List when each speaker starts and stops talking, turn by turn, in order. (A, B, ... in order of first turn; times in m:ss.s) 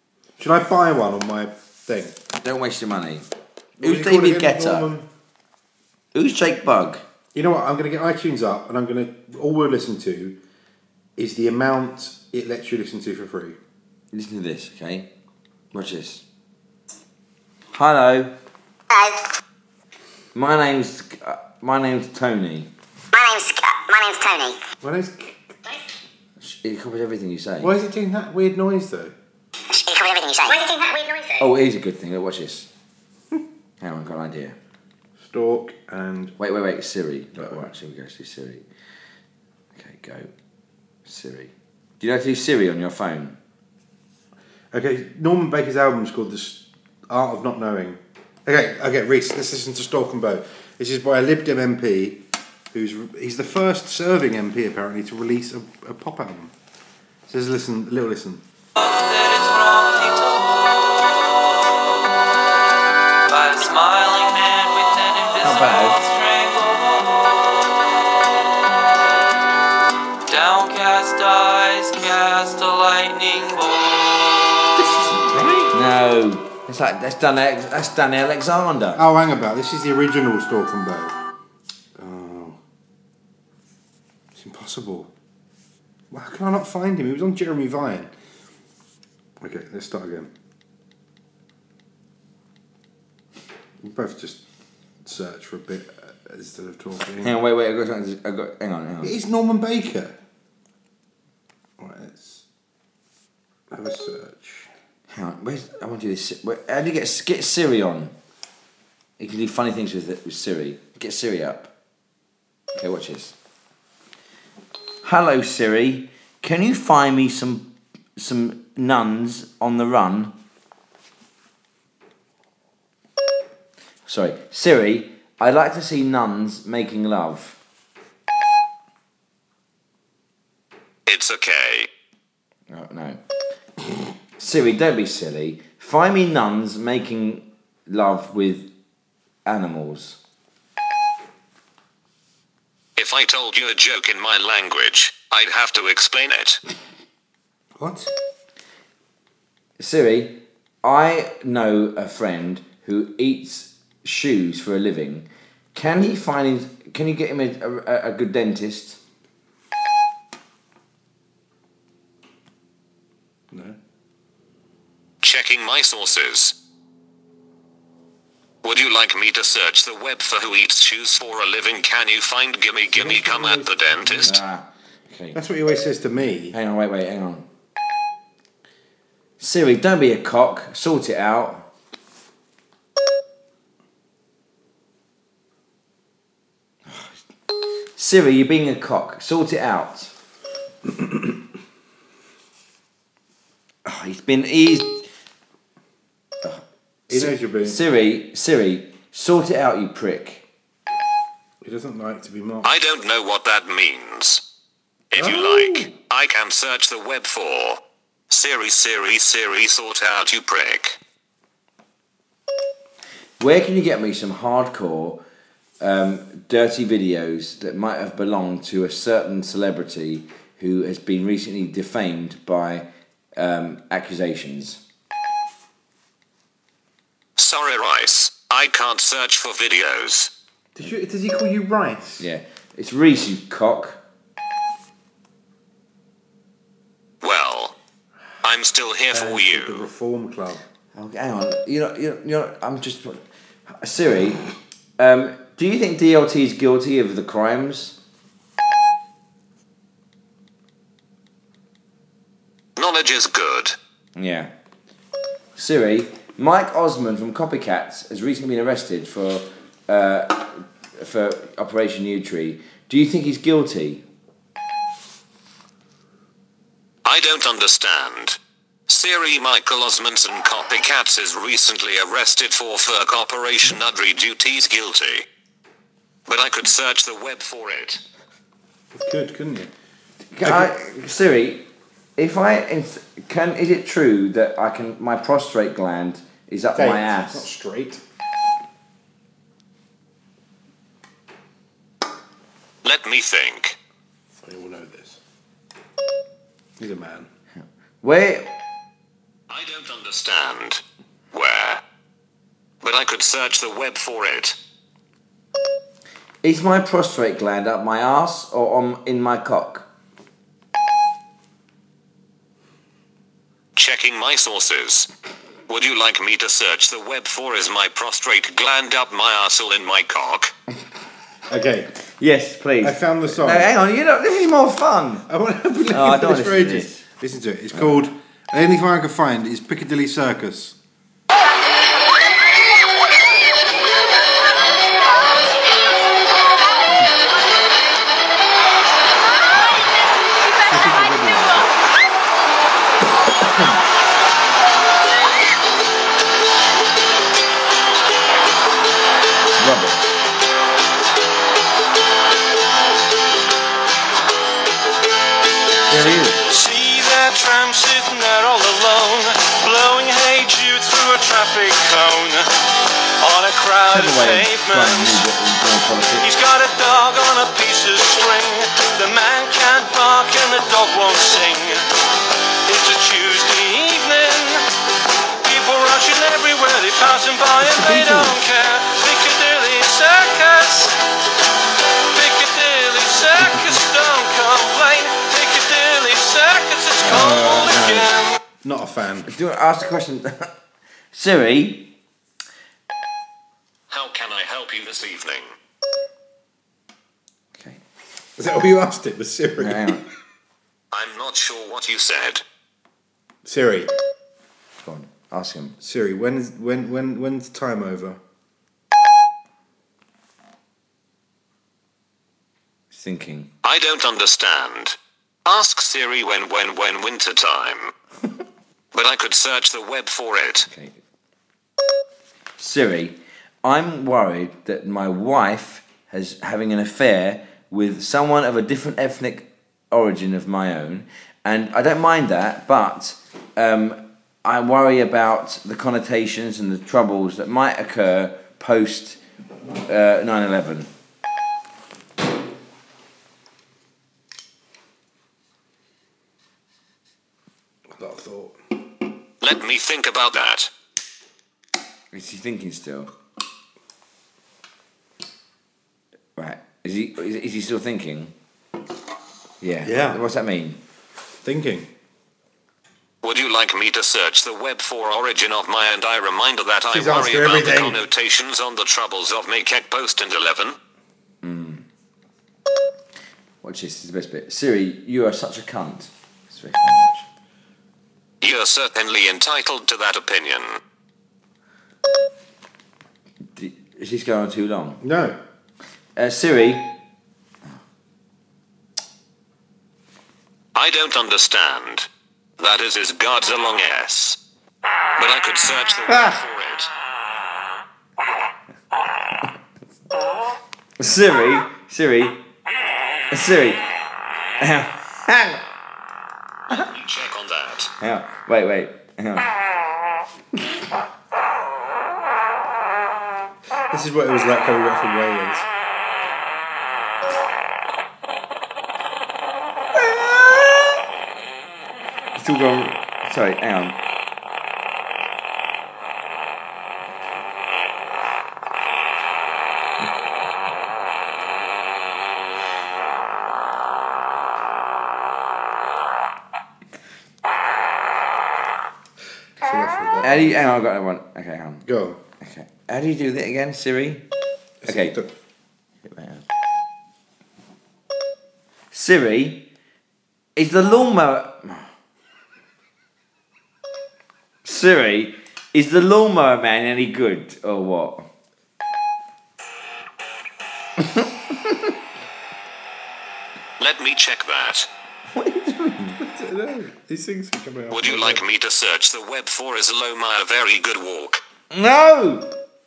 0:00.4-0:02.2 A
0:02.4-0:03.3 B
0:03.8-0:05.1 A
0:03.8-0:04.9 B
0:06.1-0:07.0 B
0:07.3-0:10.4 A
0:11.2-0:13.6 A
0:14.1-0:15.1 B
0:15.7-0:16.2 B
0:17.7-0:18.3 B
0:18.9-0:19.3 C
0:20.3-0:22.7 B
0:23.1-0:24.6 C
0:24.8-0:25.6 A
0:26.4-0:27.7 B
0:27.6-0:29.2 A
0:29.7-0:31.5 C
0:31.4-0:32.7 B
0:33.8-0:34.6 B
0:35.2-0:36.4 A
0:36.4-0:38.6 B
0:39.8-0:40.3 B
0:41.1-0:43.4 B
0:44.7-0:56.5 A
0:57.3-0:58.4 A
0:58.8-1:01.8 D
1:03.3-1:08.0 D
1:05.4-1:06.0 B
1:10.3-1:14.3 D
1:14.8-1:15.7 A
1:15.7-1:19.0 B
1:19.0-1:21.2 A
1:22.0-1:22.6 A
1:24.4-1:25.1 A
1:26.1-1:28.1 A
1:29.4-1:30.3 A
1:33.8-1:34.4 A
1:35.0-1:37.3 A
1:37.2-1:39.2 B
1:39.0-1:40.2 A
1:41.8-1:42.4 A
1:43.7-1:44.7 A
1:45.1-1:48.1 B
1:49.2-1:51.7 B
1:52.8-1:53.4 B
1:55.0-2:00.3 B
2:04.1-2:07.6 B
2:11.1-2:11.9 E
2:12.7-2:13.2 B
2:14.4-2:18.7 B
2:19.4-2:20.2 B
2:23.0-2:26.6 E
2:27.8-2:28.1 A
2:29.8-2:39.0 B
2:43.5-2:43.8 A
2:45.2-2:46.6 E
2:48.6-2:54.4 E
2:52.9-2:54.4 A
2:54.3-2:55.4 B
2:55.3-2:56.6 A
2:56.5-2:57.5 B
2:59.4-3:01.7 B
3:06.9-3:07.2 B
3:07.9-3:10.1 B
3:13.8-3:15.1 B
3:16.4-3:20.4 B
3:17.1-3:17.8 A
3:21.6-3:22.8 A
3:22.6-3:24.4 E
3:25.1-3:31.0 E
3:25.2-3:25.9 A
3:33.4-3:35.2 B
3:35.8-3:44.8 B
3:47.4-3:50.3 E
3:50.8-3:52.3 A
3:52.2-3:54.0 B
3:57.2-3:57.8 E
3:58.4-3:59.8 E
3:59.1-4:00.6 A
4:01.0-4:04.4 B
4:05.0-4:08.0 B
4:12.8-4:13.8 E
4:14.2-4:14.5 B
4:15.6-4:24.0 B
4:27.0-4:35.3 E
4:36.3-4:38.0 E
4:38.9-4:39.7 A
4:40.3-4:41.7 B
4:40.4-4:40.7 A
4:42.2-4:47.5 B
4:46.8-4:48.0 A
4:52.8-4:53.8 E
4:54.4-4:55.2 A
4:56.8-4:57.3 A
4:58.0-4:58.5 B
4:59.5-5:00.8 E
5:01.3-5:01.8 E
5:02.8-5:04.6 E
5:06.4-5:09.9 B
5:13.8-5:15.1 E
5:15.7-5:20.5 E
5:21.5-5:21.9 A
5:22.2-5:25.3 B
5:22.8-5:23.7 A
5:25.3-5:30.8 A
5:25.9-5:27.0 B
5:40.7-5:41.7 A
5:43.5-5:43.8 A
5:49.6-5:50.1 B
5:55.9-5:56.4 B
5:56.4-6:05.2 F
6:03.9-6:06.3 B
6:06.2-6:11.9 F
6:12.7-6:14.7 F
6:15.4-6:21.0 F
6:17.6-6:18.4 A
6:22.1-6:28.4 F
6:27.0-6:29.3 A
6:29.3-6:30.5 B
6:31.1-6:31.9 B
6:33.9-6:35.5 E
6:37.6-6:37.8 B
6:38.4-6:40.1 A
6:39.6-6:40.0 B
6:40.9-6:42.4 E
6:43.4-6:43.9 A
6:44.8-6:45.8 B
6:45.8-6:48.2 A
6:52.9-6:53.5 B
6:53.6-6:57.9 E
6:58.9-7:00.7 E
7:00.7-7:01.0 B
7:02.6-7:19.2 B
7:19.9-7:20.9 B
7:28.0-7:28.6 A
7:29.4-7:30.7 E
7:32.1-7:33.1 B
7:36.4-7:38.3 B
7:39.6-7:40.8 B
7:39.8-7:40.2 A
7:41.4-7:41.9 A
7:43.2-7:50.8 E
7:46.9-7:48.0 A
7:51.4-7:51.8 B
7:53.6-7:57.3 B
7:58.4-8:00.8 E
8:03.5-8:05.0 B
8:05.0-8:05.4 A
8:06.2-8:07.0 B
8:10.8-8:12.1 E
8:12.6-8:14.4 E
8:15.2-8:16.9 E
8:16.1-8:16.4 B
8:21.0-8:22.4 B
8:23.3-8:23.8 B
8:24.6-8:25.6 B
8:26.7-8:27.9 E
8:28.0-8:29.5 B
8:33.9-8:35.7 A
8:39.9-8:41.0 B
8:42.4-8:44.0 B
8:59.6-9:00.7 A
9:00.2-9:01.9 B
9:01.9-9:02.2 A
9:02.4-9:04.2 B
9:04.8-9:05.3 A
9:04.8-9:05.2 B
9:06.0-9:06.4 B
9:08.9-9:09.7 B
9:10.6-9:11.9 B
9:14.6-9:18.3 B
9:21.0-9:21.8 B
9:23.8-9:24.9 E
9:25.3-9:26.2 B
9:26.0-9:28.4 A
9:27.9-9:31.4 E
9:31.7-9:32.6 B